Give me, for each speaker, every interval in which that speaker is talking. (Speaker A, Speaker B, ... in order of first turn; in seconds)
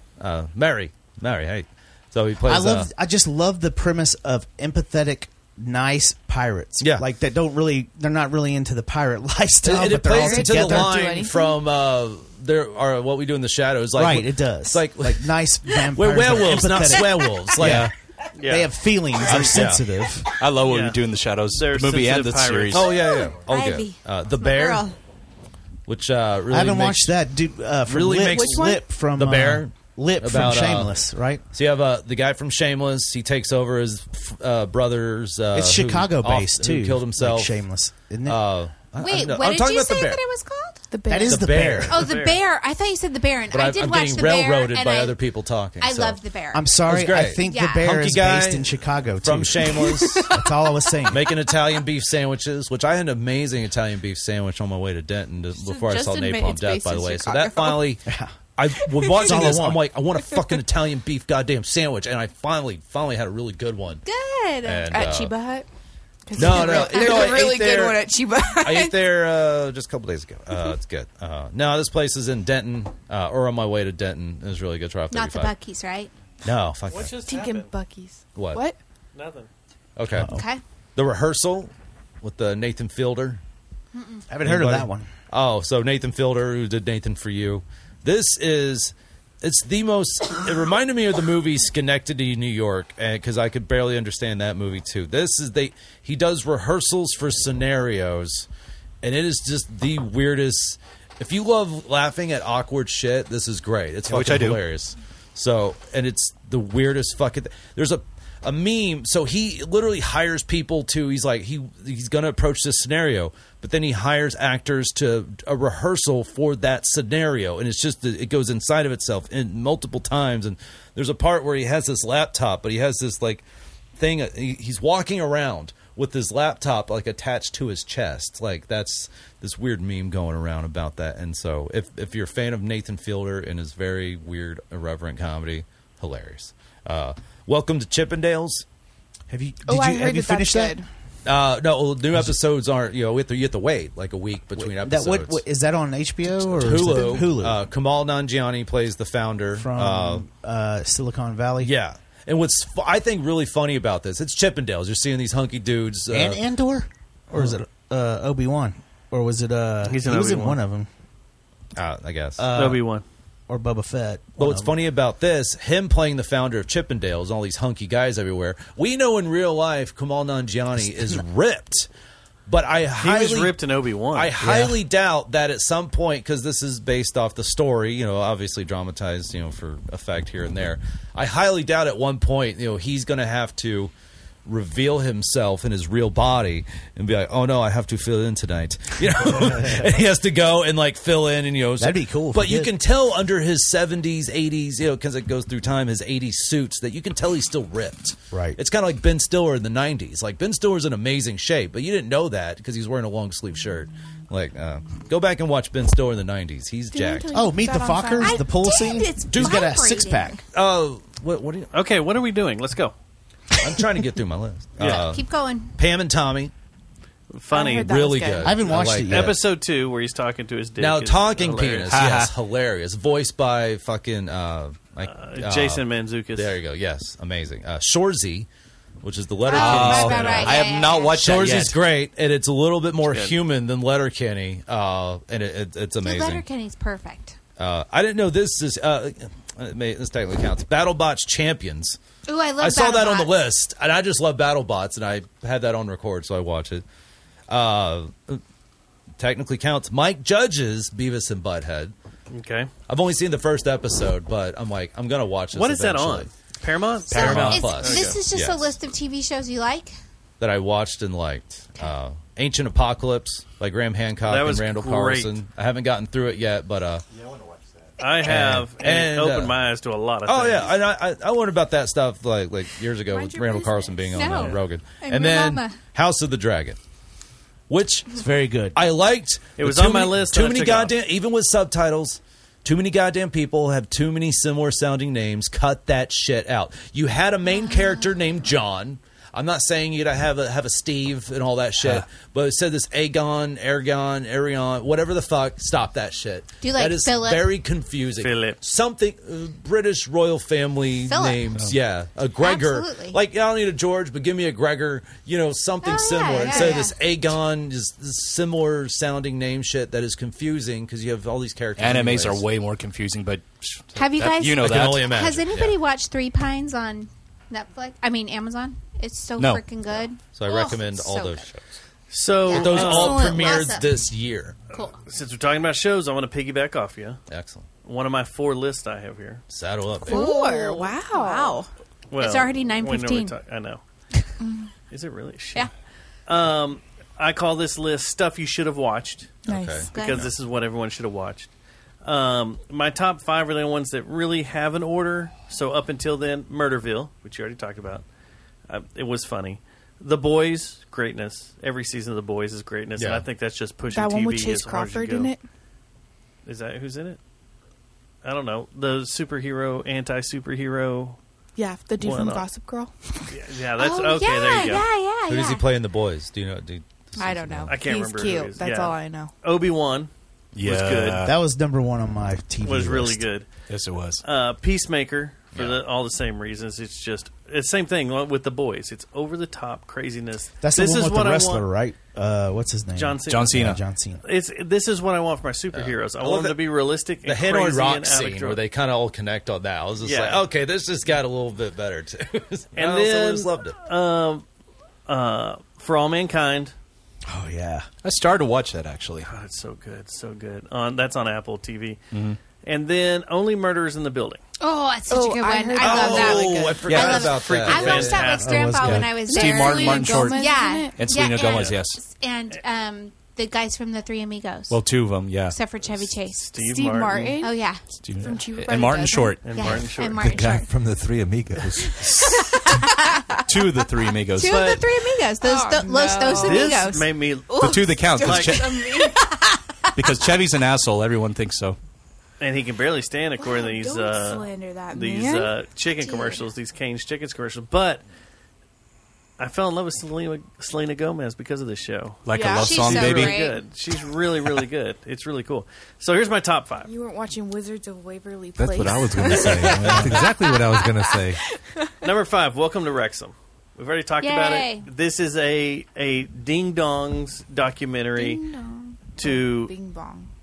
Speaker A: 0.2-2.9, 6.8-7.0, 9.6-15.3, 15.9-17.9, 19.4-19.9, 22.7-24.9, 25.9-27.1, 27.9-30.9, 31.5-37.5, 38.2-40.2, 41.2-42.0, 43.5-46.2, 46.8-48.7, 49.2-50.3, 51.1-58.0, 58.5-64.0, 64.6-65.3, 66.3-68.0, 68.6-75.5, 76.4-77.2, 78.3-78.6, 80.0-80.3, 81.0-81.7, 82.2-83.4, 84.4-98.5, 99.0-123.4, 124.0-138.6, 141.2-145.4, 146.3-150.2, 151.6-156.4, 161.8-162.5, 164.4-171.9, 172.5-173.6, 174.1-183.9, 184.4-207.3, 209.3-209.7, 210.5-211.7, 213.6-216.5, 217.8-219.4, 220.8-225.8, 226.3-228.5, 229.0-236.4, 237.6-242.0, 242.6-246.8, 247.5-248.4, 249.2-251.9, 252.9-256.3, 257.1-258.8, 260.4-267.0, 268.2-269.5, 270.3-276.8, 277.7-278.2, 278.7-312.4, 314.6-315.8, 320.3-321.6, 322.5-324.6, 327.3-327.6, 329.5-330.3, 339.4-340.3, 353.0-353.2, 365.3-367.8, 375.5-375.8, 385.7-386.6, 387.2-393.7, 405.8-408.4
Speaker B: 2.5-11.1, 13.9-17.9, 18.4-20.3, 26.5-31.4, 35.5-38.4, 41.1-42.0, 46.5-51.3, 58.1-58.3, 59.0-59.9, 80.2-80.4, 84.3-85.1, 139.3-140.8, 144.6-147.6, 149.5-151.7, 156.1-160.9, 162.4-162.8, 163.5-164.7, 174.4-174.7, 189.3-189.9, 191.8-192.7, 198.3-198.6, 207.3-210.4, 218.4-219.4, 278.1-278.8, 371.2-373.2, 380.6-384.2, 397.2-397.9, 408.4-409.1
Speaker C: 10.0-11.5, 28.3-28.8, 40.9-41.7, 55.5-57.9, 59.0-59.6, 64.9-65.7, 66.3-69.0, 77.2-78.8, 139.7-140.8, 206.9-208.4, 217.5-218.6, 273.1-274.4, 330.1-331.7, 334.4-334.7, 339.5-339.9, 353.9-355.4, 361.6-363.3, 367.2-369.3, 405.1-406.8, 409.3-411.0, 416.6-419.4, 425.4-429.4, 433.4-436.4, 442.3-442.6, 446.8-451.9, 458.2-458.6, 459.2-460.3
Speaker D: 17.6-17.9, 20.4-22.8, 104.1-104.6, 221.9-222.3, 229.5-231.8, 311.8-315.1, 319.4-319.6, 370.5-371.3, 373.7-374.2, 383.3-383.8, 398.0-399.3, 402.1-402.4, 406.9-407.2, 408.5-410.4, 411.0-412.0, 414.7-415.6, 418.0-419.9, 423.5-424.7, 427.6-428.8, 429.9-431.8, 442.2-443.4, 449.6-450.1
Speaker E: 18.4-18.8, 20.6-22.9, 41.9-42.4, 76.9-77.7, 79.1-79.5, 159.9-160.6, 162.5-163.0, 173.0-174.3, 211.7-212.9, 214.8-215.1, 217.3-217.9, 219.0-222.0, 225.0-226.6, 233.1-233.3, 252.3-252.7, 255.5-258.2, 264.2-265.3, 268.0-270.8, 279.6-280.9, 298.2-298.6, 322.1-323.3, 325.0-327.2, 327.8-329.4, 332.1-333.8, 334.9-335.7, 336.3-339.4, 339.9-341.5, 342.0-348.0, 348.7-355.3, 356.4-357.2, 358.2-361.2, 362.0-362.5, 363.3-364.9, 367.7-371.3, 372.6-373.5, 374.2-381.6, 382.9-383.6, 384.2-388.6, 390.0-390.4, 392.8-394.4, 395.1-396.7, 399.2-402.0, 402.6-404.4, 407.0-408.8, 411.5-411.8, 416.4-417.4, 419.4-420.4, 424.4-424.8, 426.3-428.6, 432.4-438.0, 439.4-446.9, 452.0-458.4, 459.1-459.7
Speaker F: 22.8-24.9, 39.0-40.8, 41.9-45.2, 45.8-46.7, 47.4-47.9, 64.0-64.9, 75.1-76.1, 80.3-80.6, 83.9-84.2, 208.2-210.4, 214.8-215.7, 229.4-231.4, 236.0-237.4, 242.3-243.3, 257.1-259.9, 274.1-275.8, 296.6-297.5, 301.1-301.4, 302.4-303.2, 305.8-306.9, 313.9-321.5, 322.4-323.9, 324.7-325.0, 330.1-331.6, 332.2-333.3, 339.9-340.2, 363.8-365.6, 404.6-414.8, 415.4-416.6, 417.4-417.8, 419.5-420.7, 422.3-423.0, 424.3-427.1, 442.5-443.6, 454.2-454.9, 458.2-458.9
Speaker G: 420.1-422.0, 448.6-451.4